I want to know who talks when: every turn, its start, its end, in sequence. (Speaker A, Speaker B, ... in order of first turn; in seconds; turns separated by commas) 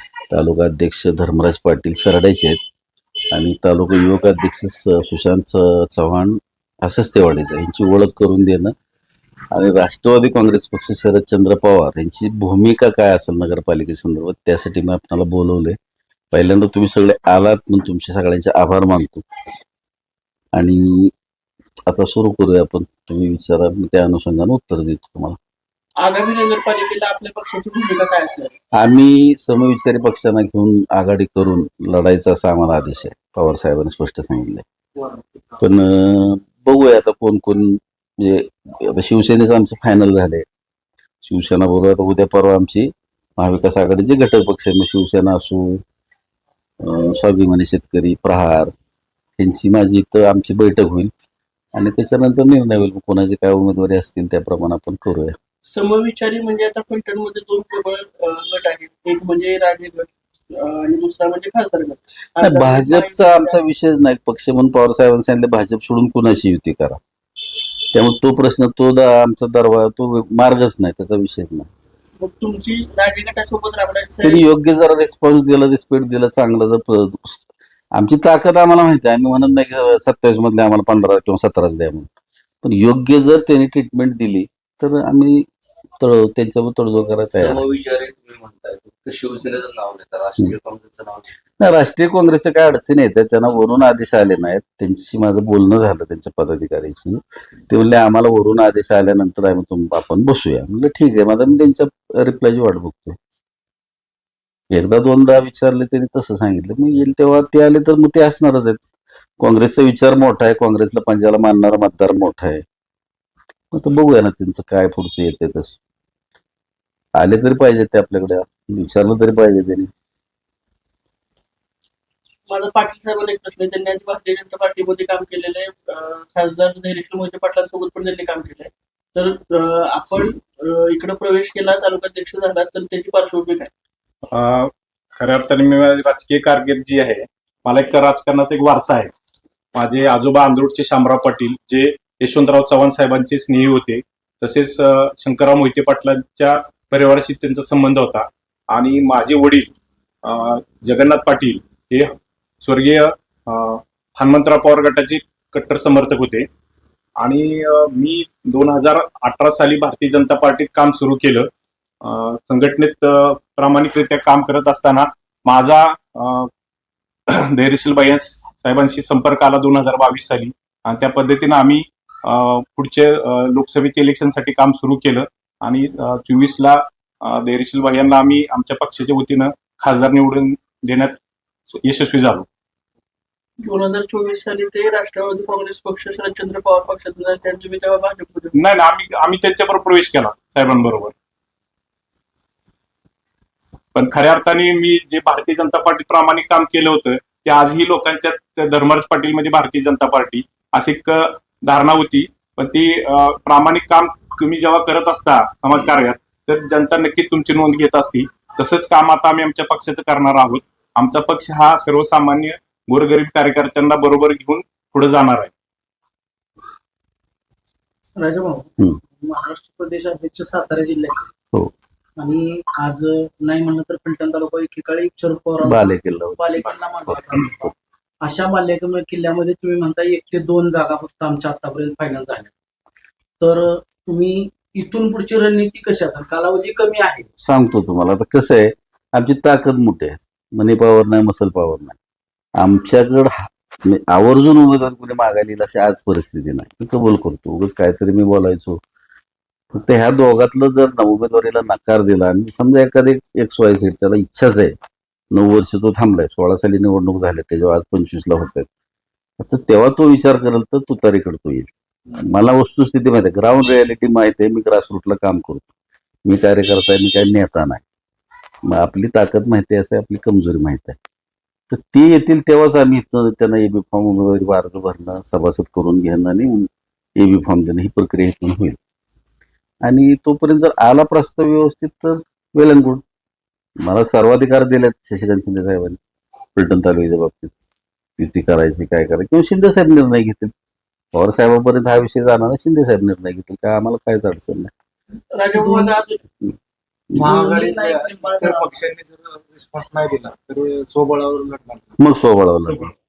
Speaker A: 0.3-2.6, Speaker A: 3.3-8.7, Speaker A: 9.5-15.8, Speaker A: 16.3-19.2, Speaker A: 20.5-21.1, Speaker A: 21.9-25.4, Speaker B: 26.0-28.5, Speaker A: 28.8-34.6, Speaker A: 35.6-40.4, Speaker A: 41.2-45.8, Speaker A: 46.8-48.7, Speaker A: 49.4-51.1, Speaker A: 51.7-55.4, Speaker B: 55.6-63.6, Speaker A: 62.4-67.0, Speaker A: 67.9-71.7, Speaker B: 72.2-74.4, Speaker A: 74.2-77.4, Speaker A: 77.9-82.1, Speaker A: 82.6-85.4, Speaker A: 86.0-87.6, Speaker C: 87.2-91.3, Speaker A: 91.6-103.2, Speaker A: 104.7-108.8, Speaker A: 109.4-112.6, Speaker A: 113.7-115.8, Speaker A: 117.2-119.9, Speaker B: 122.5-133.7, Speaker D: 134.3-139.1, Speaker D: 139.7-149.7, Speaker D: 150.2-156.4, Speaker D: 157.2-161.5, Speaker D: 162.0-166.5, Speaker D: 167.3-182.4, Speaker B: 183.6-188.7, Speaker D: 188.5-191.1, Speaker D: 193.9-215.5, Speaker E: 218.2-221.3, Speaker E: 222.2-232.5, Speaker A: 225.6-227.7, Speaker E: 233.4-237.3, Speaker A: 237.4-242.0, Speaker A: 242.6-248.8, Speaker A: 249.7-254.8, Speaker A: 255.3-258.7, Speaker A: 259.4-265.7, Speaker A: 266.2-267.8, Speaker A: 268.7-271.0, Speaker A: 271.7-278.8, Speaker A: 279.8-283.0, Speaker A: 283.8-286.0, Speaker A: 286.6-287.5, Speaker A: 288.2-290.5, Speaker A: 291.1-294.7, Speaker B: 295.3-296.2, Speaker F: 295.6-295.9, Speaker F: 297.1-301.9, Speaker E: 297.2-298.8, Speaker A: 302.0-302.9